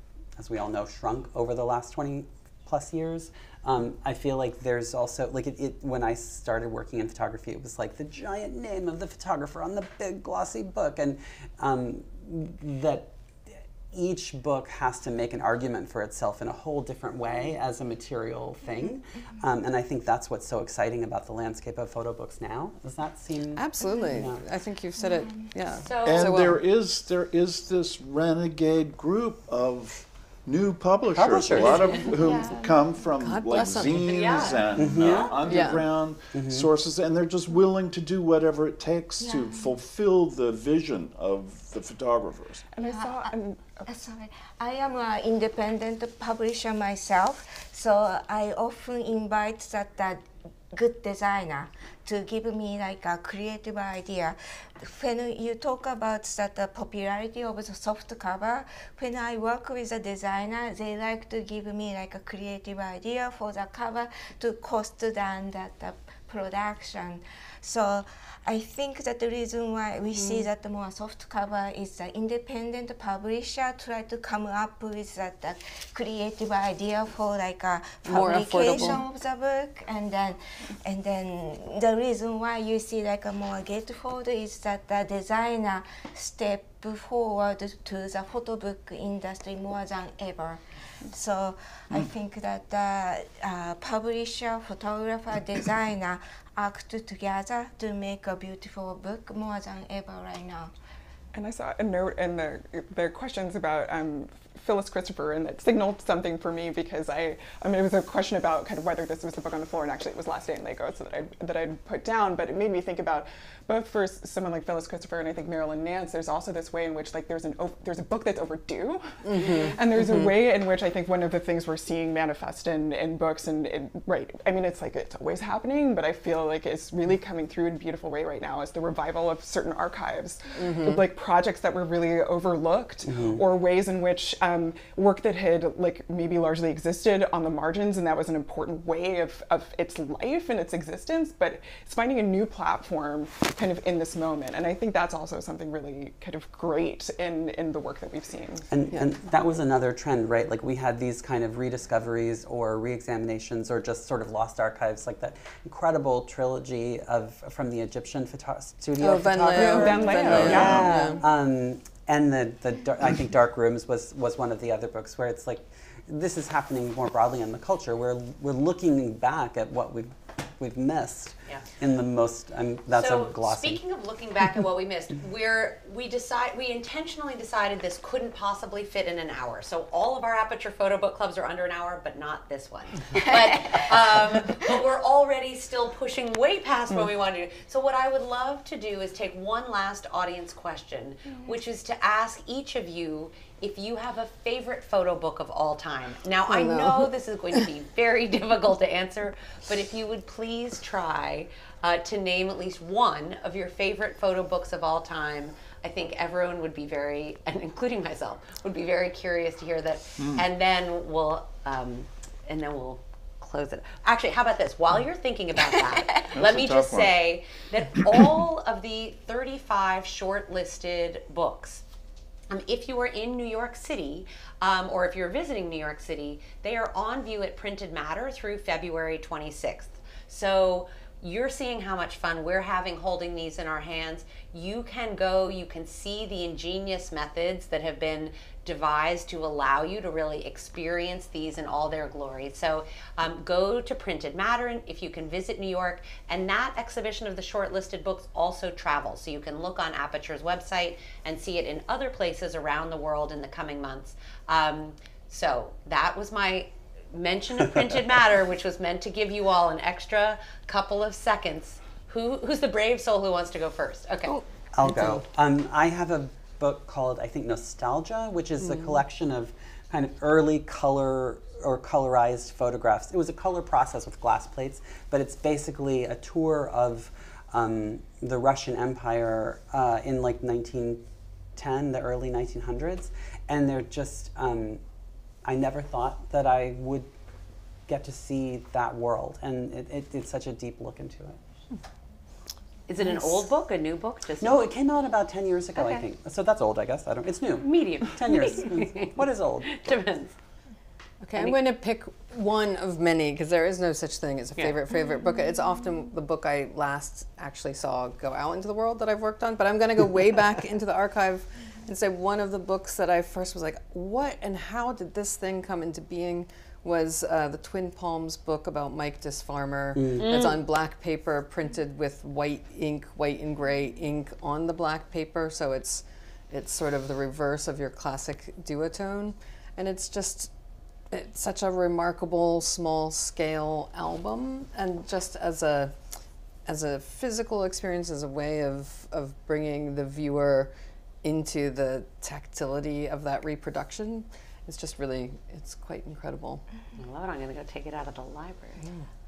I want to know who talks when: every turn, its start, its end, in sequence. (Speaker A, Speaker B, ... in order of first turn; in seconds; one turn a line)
Speaker A: 0.4-24.4
Speaker B: 23.6-26.6
Speaker C: 25.9-26.3
Speaker D: 26.0-42.6
Speaker A: 31.1-32.4
Speaker B: 33.2-34.4
Speaker C: 34.0-35.3
Speaker A: 34.7-35.6
Speaker B: 35.5-35.8
Speaker A: 36.3-36.7
Speaker E: 39.2-39.7
Speaker F: 42.8-43.9
Speaker E: 42.9-43.3
Speaker E: 43.9-100.7
Speaker B: 78.0-79.0
Speaker F: 101.3-148.7
Speaker B: 119.2-120.4
Speaker C: 119.3-119.7
Speaker B: 130.6-131.1
Speaker A: 133.1-133.4
Speaker A: 148.7-173.8
Speaker B: 159.0-161.2
Speaker F: 159.5-161.2
Speaker C: 172.9-221.8
Speaker B: 196.5-197.1
Speaker D: 210.2-210.4
Speaker D: 216.3-217.2
Speaker C: 222.5-264.4
Speaker B: 264.3-265.2
Speaker A: 264.7-284.8
Speaker A: 285.4-287.1
Speaker A: 287.9-291.4
Speaker C: 292.9-294.6
Speaker A: 294.4-299.9
Speaker C: 295.8-296.0
Speaker C: 297.6-300.3
Speaker B: 301.2-330.5
Speaker A: 319.9-320.4
Speaker C: 320.2-320.6
Speaker B: 331.1-336.0
Speaker B: 336.7-340.7
Speaker B: 341.2-346.6
Speaker C: 347.0-348.8